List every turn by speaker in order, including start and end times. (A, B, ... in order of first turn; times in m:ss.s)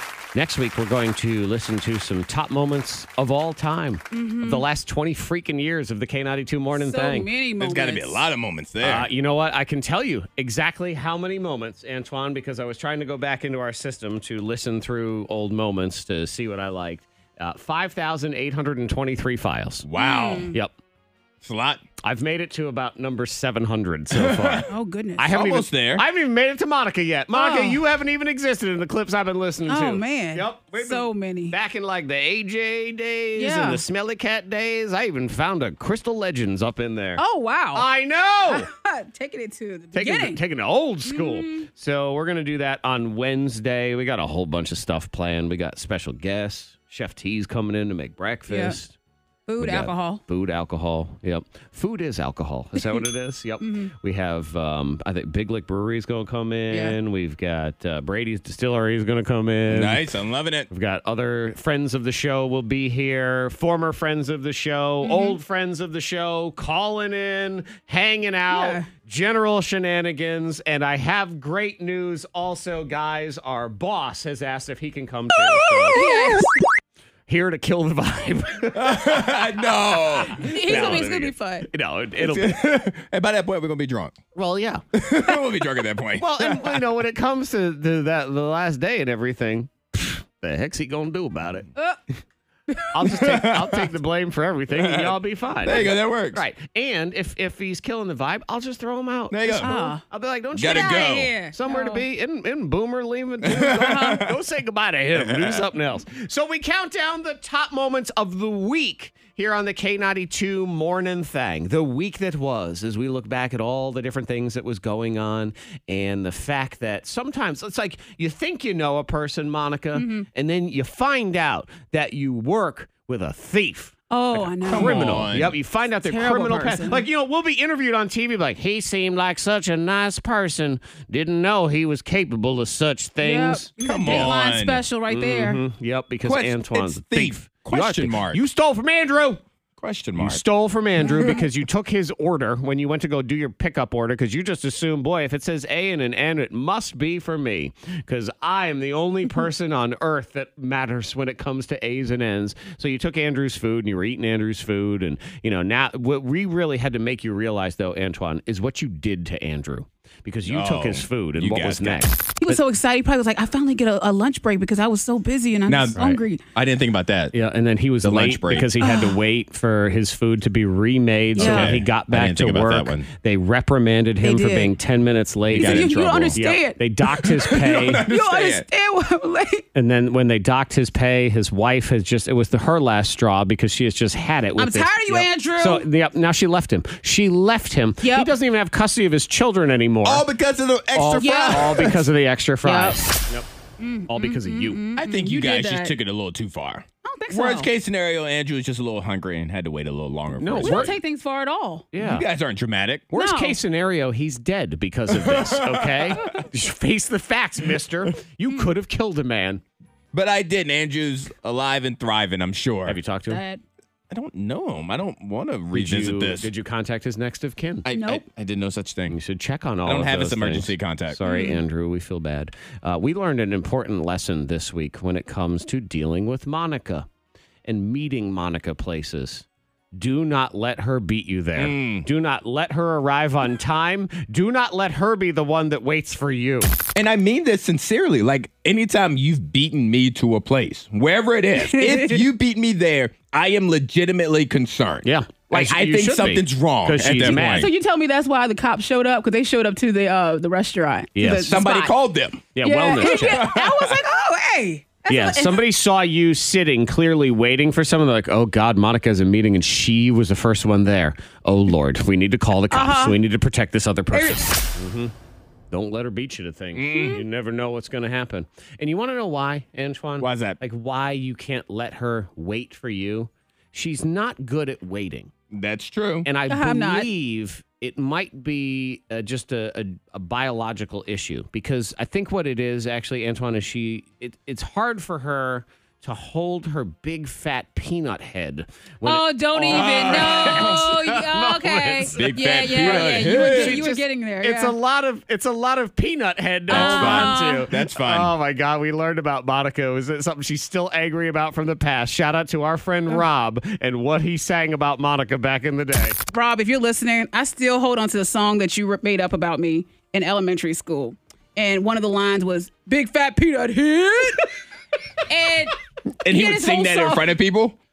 0:00.4-0:07.3 A
0:04.1-0:04.7 B
0:06.8-0:08.3 B
0:07.6-0:09.1 C
0:08.8-0:19.9 A
0:19.8-0:20.5 C
0:20.0-0:20.6 B
0:21.4-0:21.8 C
0:22.0-0:37.2 A
0:24.1-0:24.6 C
0:24.7-0:25.3 B
0:25.3-0:26.0 C
0:27.3-0:27.8 B
0:29.7-0:31.6 B
0:33.4-0:33.8 B
0:37.2-0:37.9 B
0:37.7-0:38.7 A
0:38.5-0:40.4 B
0:39.9-0:49.0 A
0:41.0-0:41.7 B
0:48.5-0:48.8 B
0:49.5-0:50.2 B
0:49.6-1:00.2 A
0:53.6-0:53.9 B
0:56.7-0:57.0 B
0:59.7-1:00.7 C
1:00.7-1:16.0 A
1:05.0-1:05.4 B
1:08.5-1:08.9 B
1:15.9-1:16.2 C
1:15.9-1:16.5 B
1:17.3-1:22.6 A
1:18.8-1:21.1 C
1:20.4-1:21.7 B
1:22.2-1:24.2 C
1:24.4-1:24.8 A
1:24.9-1:26.8 C
1:26.2-1:31.7 A
1:32.7-1:33.4 B
1:32.9-2:04.0 A
1:33.1-1:33.9 C
1:34.7-1:36.4 C
1:39.3-1:39.8 C
1:39.6-1:40.0 B
1:40.5-1:41.3 C
1:40.6-1:42.0 B
1:43.4-1:44.4 C
1:43.6-1:44.2 B
1:45.1-1:45.6 C
1:59.9-2:00.3 B
2:04.1-2:05.2 B
2:04.3-2:05.6 C
2:04.7-2:14.3 A
2:06.0-2:07.0 B
2:13.2-2:15.6 B
2:13.8-2:14.8 C
2:15.1-2:19.4 A
2:16.2-2:18.4 C
2:19.8-2:20.4 C
2:20.2-2:42.2 A
2:21.0-2:21.4 B
2:40.5-2:42.6 C
2:42.4-2:46.4 B
2:45.7-2:47.3 C
2:47.3-2:58.0 A
2:48.0-2:48.7 C
2:48.8-2:49.2 B
2:51.4-2:53.1 C
2:51.4-2:51.8 B
2:54.2-2:54.7 B
2:55.5-2:56.4 C
2:55.5-2:59.6 B
2:57.1-2:58.7 C
2:59.7-3:10.3 A
3:04.6-3:05.9 B
3:08.0-3:08.3 B
3:10.0-3:12.1 C
3:10.9-3:13.5 A
3:11.2-3:11.8 B
3:12.6-3:13.0 B
3:13.8-3:16.0 B
3:14.1-3:14.8 A
3:15.0-3:21.0 C
3:17.0-3:17.7 B
3:20.4-3:20.9 A
3:20.6-3:21.9 B
3:21.9-3:22.3 A
3:22.0-3:23.1 C
3:23.1-3:29.6 A
3:23.1-3:23.6 B
3:25.1-3:26.4 C
3:30.1-3:33.0 C
3:32.9-3:33.4 A
3:33.3-3:33.6 B
3:34.1-3:36.5 C
3:35.7-3:37.9 A
3:37.9-3:39.2 C
3:37.9-3:38.2 B
3:39.1-3:47.1 A
3:39.9-3:41.2 C
3:41.2-3:41.6 B
3:47.7-3:56.7 A
3:51.6-3:52.1 C
3:56.9-4:07.7 C
4:01.6-4:02.2 B
4:05.0-4:07.7 A
4:07.2-4:11.9 B
4:11.2-4:11.6 A
4:11.5-4:12.5 C
4:12.6-4:13.5 A
4:12.6-4:15.6 B
4:13.0-4:14.0 C
4:15.1-4:25.1 A
4:22.7-4:23.2 B
4:24.1-4:24.5 B
4:25.7-4:35.3 A
4:26.7-4:27.2 C
4:26.9-4:27.2 B
4:30.2-4:30.6 C
4:35.5-4:36.3 C
4:36.2-5:06.2 A
4:36.5-4:37.1 B
4:49.0-4:54.8 B
4:49.7-4:50.8 C
4:52.1-4:53.8 C
4:56.7-4:57.7 B
4:56.7-4:58.3 C
5:06.3-5:14.5 B
5:15.3-5:17.3 B
5:16.2-5:17.8 C